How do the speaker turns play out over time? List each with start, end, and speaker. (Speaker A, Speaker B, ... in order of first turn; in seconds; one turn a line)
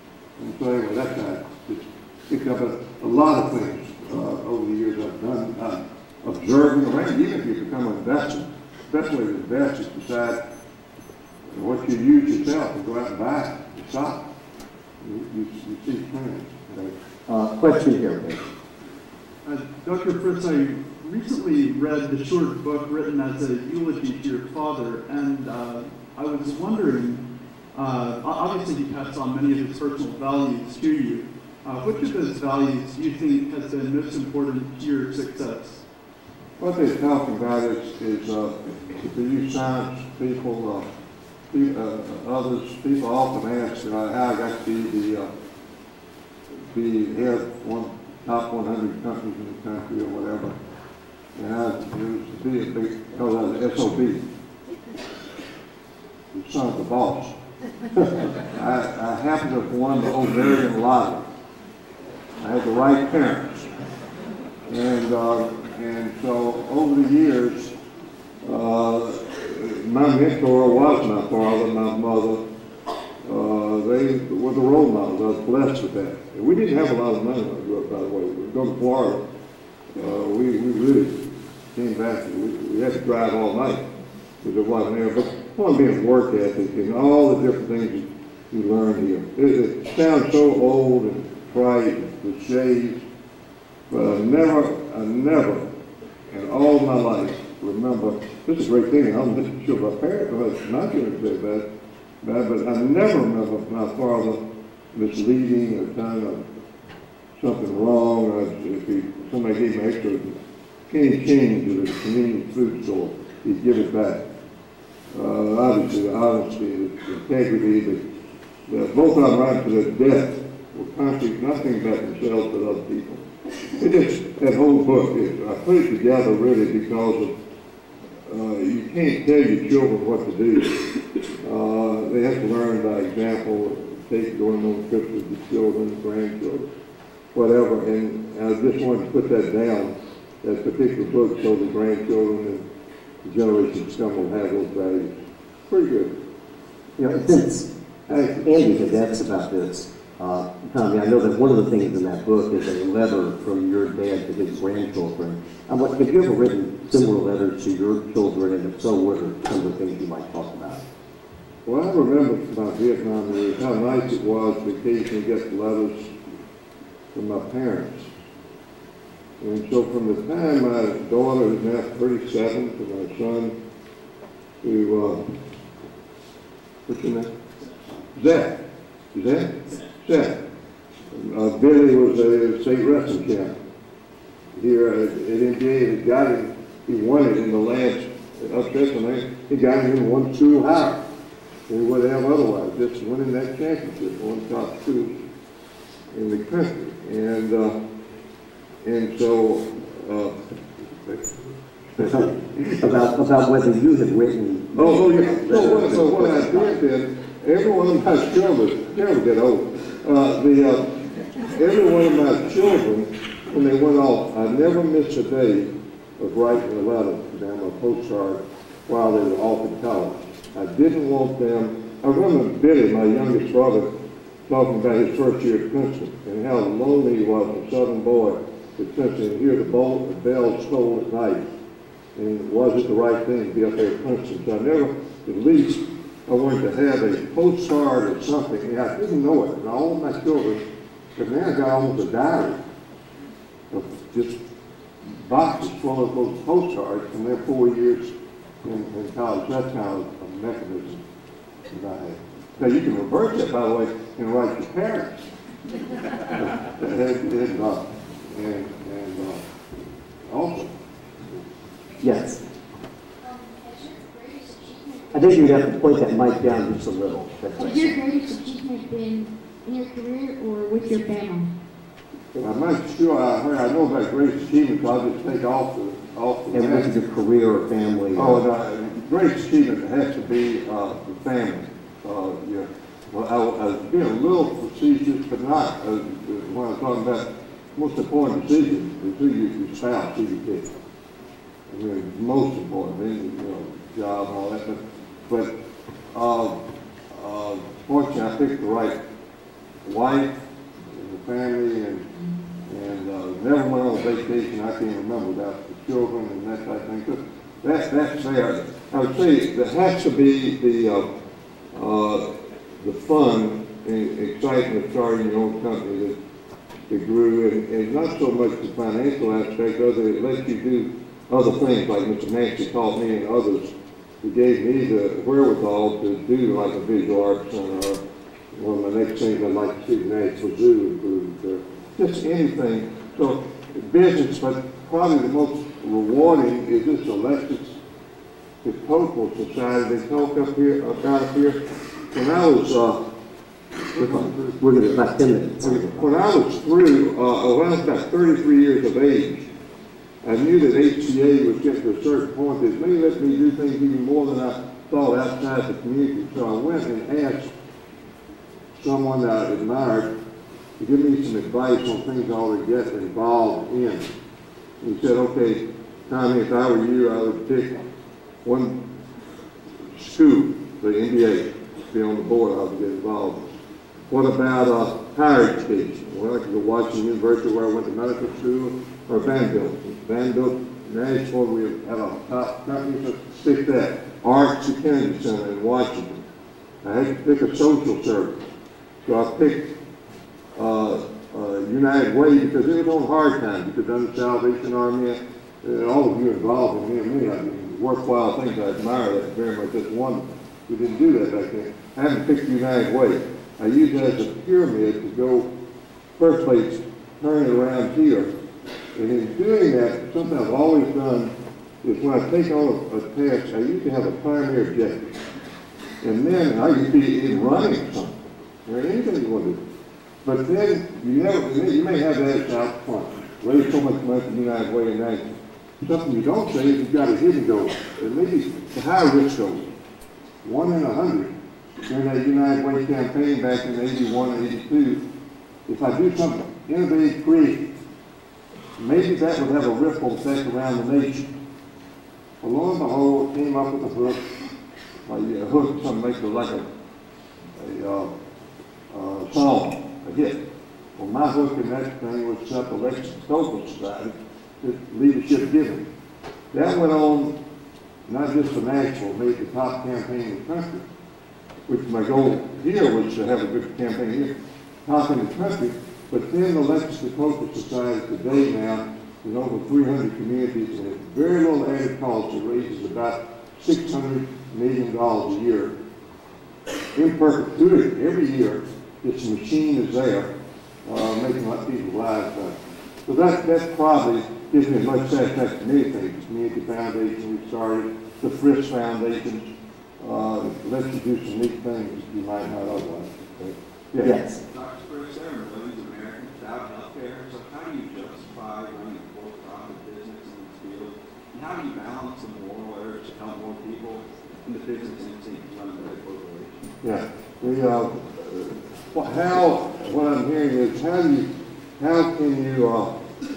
Speaker A: 0.4-10.4
Speaker A: 11.5-14.3
Speaker A: 15.0-16.9
Speaker B: 17.3-18.4
Speaker C: 19.4-27.2
Speaker C: 27.7-35.8
Speaker A: 36.6-40.9
Speaker A: 41.5-45.3
Speaker A: 46.7-50.5
Speaker A: 51.4-54.2
Speaker A: 56.3-57.4
Speaker A: 57.9-61.2
Speaker A: 62.4-63.7
Speaker A: 64.7-67.7
Speaker A: 68.4-72.4
Speaker A: 73.2-79.2
Speaker A: 80.0-83.9
Speaker A: 84.4-93.0
Speaker A: 93.9-95.7
Speaker A: 96.3-101.7
Speaker A: 102.2-104.4
Speaker A: 104.9-106.5
Speaker A: 107.4-110.4
Speaker A: 110.9-114.2
Speaker A: 115.1-118.0
Speaker A: 118.7-127.3
Speaker A: 128.3-136.7
Speaker A: 137.3-142.7
Speaker A: 143.2-145.2
Speaker A: 145.7-146.2
Speaker B: 147.0-160.8
Speaker A: 148.1-148.5
Speaker A: 161.7-166.1
Speaker A: 167.1-168.1
Speaker A: 169.4-173.6
Speaker A: 174.6-175.2
Speaker A: 176.9-177.3
Speaker A: 178.1-178.6
Speaker A: 179.1-180.4
Speaker A: 181.1-183.6
Speaker A: 184.6-191.0
Speaker A: 191.7-195.2
Speaker A: 196.1-197.8
Speaker A: 198.8-201.3
Speaker A: 202.0-202.7
Speaker B: 202.0-206.8
Speaker A: 204.8-211.0
Speaker A: 211.5-231.5
Speaker A: 232.2-240.6
Speaker A: 241.2-242.6
Speaker A: 243.7-244.4
Speaker A: 245.1-248.1
Speaker A: 248.6-251.0
Speaker A: 251.7-255.3
Speaker A: 256.3-259.4
Speaker A: 260.3-260.8
Speaker B: 262.0-262.4
Speaker D: 263.2-265.5
Speaker B: 265.1-268.0
Speaker D: 267.6-271.5
Speaker A: 272.4-276.9
Speaker B: 276.5-278.4
Speaker A: 278.1-290.7
Speaker A: 291.7-295.5
Speaker A: 296.1-299.0
Speaker A: 299.9-300.4
Speaker A: 300.9-302.1
Speaker A: 302.7-311.1
Speaker A: 311.7-316.2
Speaker A: 316.9-328.0
Speaker A: 328.5-337.8
Speaker A: 338.6-343.0
Speaker A: 343.9-344.6
Speaker B: 344.0-346.1
Speaker A: 345.6-349.5
Speaker A: 350.2-357.5
Speaker A: 358.8-360.1
Speaker A: 360.8-364.0
Speaker A: 364.8-367.8
Speaker A: 368.4-368.8
Speaker A: 369.9-373.5
Speaker A: 374.1-386.2
Speaker A: 386.8-388.4
Speaker A: 389.0-389.7
Speaker A: 390.6-405.5
Speaker A: 406.2-408.3
Speaker A: 408.9-415.2
Speaker A: 416.0-419.6
Speaker A: 420.2-429.7
Speaker A: 430.4-431.3
Speaker A: 431.9-435.0
Speaker A: 435.7-437.7
Speaker A: 438.8-441.3
Speaker A: 442.4-444.2
Speaker A: 445.1-446.7
Speaker A: 447.6-448.1
Speaker A: 448.9-450.4
Speaker A: 451.0-455.9
Speaker A: 456.5-457.4
Speaker A: 458.1-460.8
Speaker A: 461.7-464.3
Speaker A: 464.9-475.7
Speaker A: 476.9-480.3
Speaker A: 480.9-482.6
Speaker A: 483.1-494.1
Speaker B: 494.0-494.4
Speaker E: 494.5-506.7
Speaker A: 506.8-512.9